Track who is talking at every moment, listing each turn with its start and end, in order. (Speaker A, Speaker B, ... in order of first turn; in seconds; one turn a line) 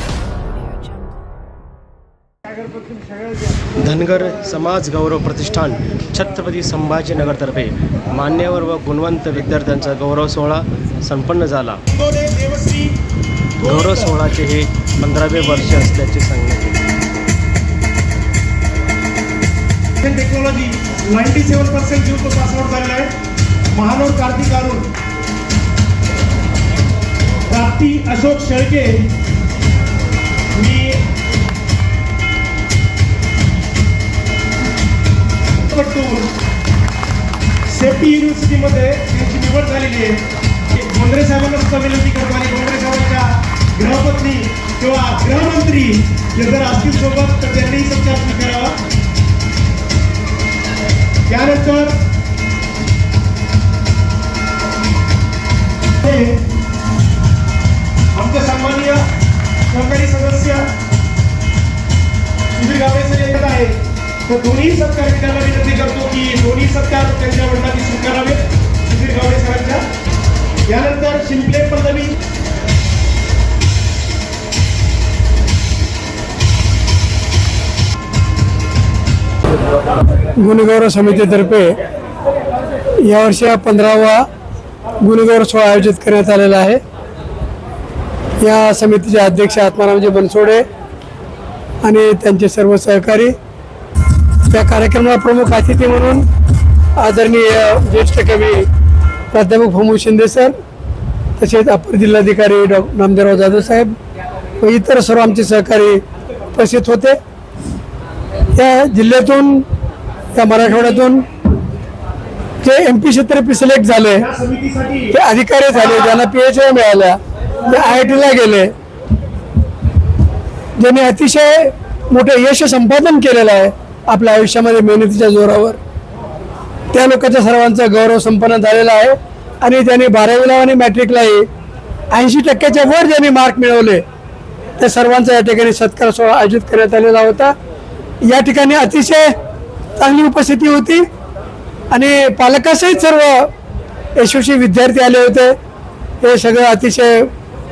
Speaker A: 3.8-11.8
Speaker B: 12.0-12.9
Speaker A: 13.6-16.8
Speaker B: 20.1-23.1
Speaker B: 23.8-24.9
Speaker B: 27.5-29.1
Speaker B: 30.6-31.0
Speaker B: 35.7-36.3
Speaker B: 37.7-40.2
Speaker B: 40.8-48.8
Speaker B: 51.3-52.0
Speaker B: 56.0-56.5
Speaker B: 58.1-59.0
Speaker B: 59.7-60.7
Speaker B: 62.6-69.8
Speaker B: 70.7-72.1
Speaker C: 80.3-81.8
Speaker C: 83.0-84.2
Speaker C: 85.0-86.8
Speaker C: 88.4-90.7
Speaker C: 91.8-93.3
Speaker C: 94.5-96.2
Speaker C: 97.0-98.7
Speaker C: 99.3-100.5
Speaker C: 101.4-104.0
Speaker C: 104.6-106.0
Speaker C: 106.5-107.2
Speaker C: 108.5-109.7
Speaker C: 110.3-111.2
Speaker C: 112.6-114.3
Speaker B: 114.5-115.0
Speaker C: 115.1-118.7
Speaker C: 120.8-125.8
Speaker C: 126.9-131.5
Speaker C: 132.1-134.0
Speaker C: 134.8-137.5
Speaker C: 138.2-139.3
Speaker C: 140.0-141.1
Speaker C: 141.9-143.5
Speaker C: 144.2-145.5
Speaker C: 146.2-147.3